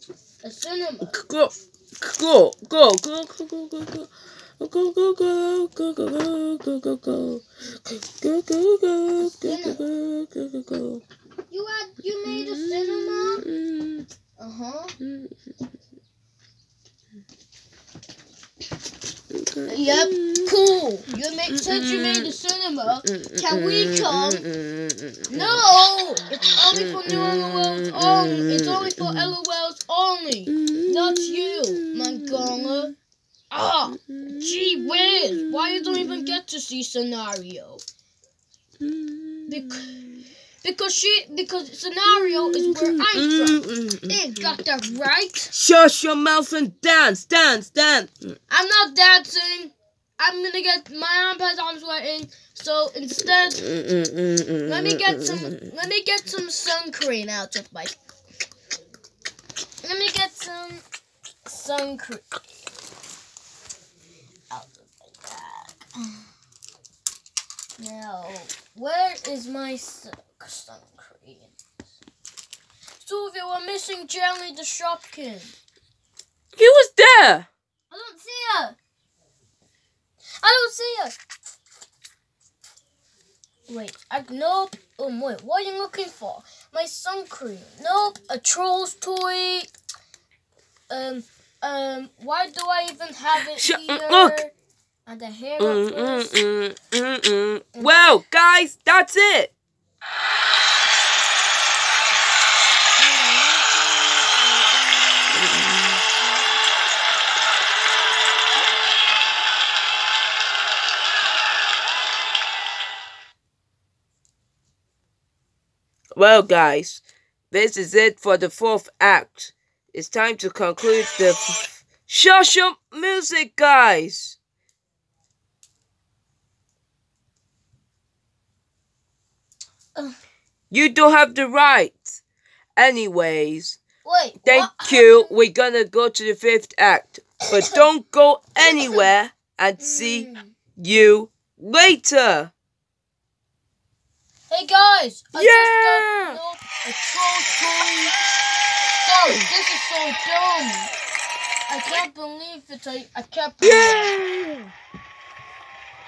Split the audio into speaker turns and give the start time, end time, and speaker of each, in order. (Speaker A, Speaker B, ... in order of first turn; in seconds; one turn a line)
Speaker A: 0.4-1.2
Speaker B: 1.0-11.0
Speaker A: 9.2-9.8
Speaker A: 11.5-13.5
Speaker B: 12.3-14.1
Speaker A: 14.4-15.0
Speaker B: 15.0-15.3
Speaker B: 19.3-20.6
Speaker A: 19.7-24.5
Speaker B: 21.5-22.4
Speaker B: 23.1-25.6
Speaker A: 25.3-32.9
Speaker B: 26.7-29.3
Speaker B: 30.5-32.9
Speaker A: 33.5-37.8
Speaker B: 33.6-36.4
Speaker B: 38.8-40.2
Speaker A: 39.5-40.1
Speaker A: 40.6-45.5
Speaker B: 42.1-44.6
Speaker B: 45.5-48.1
Speaker A: 48.5-53.7
Speaker B: 53.5-55.6
Speaker A: 54.7-58.0
Speaker A: 59.8-60.8
Speaker A: 61.5-62.3
Speaker A: 64.5-66.2
Speaker A: 67.8-71.6
Speaker A: 73.0-75.5
Speaker B: 76.6-77.5
Speaker A: 77.9-78.8
Speaker A: 80.4-81.2
Speaker A: 83.7-89.7
Speaker A: 90.9-94.5
Speaker B: 93.4-94.4
Speaker A: 95.1-96.3
Speaker B: 95.6-99.5
Speaker A: 103.0-106.6
Speaker B: 105.3-106.0
Speaker B: 116.2-124.4
Speaker B: 130.7-132.2
Speaker B: 132.8-133.8
Speaker A: 134.0-135.3
Speaker B: 134.4-142.5
Speaker A: 137.5-137.8
Speaker A: 138.6-139.1
Speaker A: 139.8-140.5
Speaker A: 144.5-148.2
Speaker B: 145.3-146.4
Speaker A: 149.0-150.9
Speaker A: 151.7-154.1
Speaker B: 153.6-154.7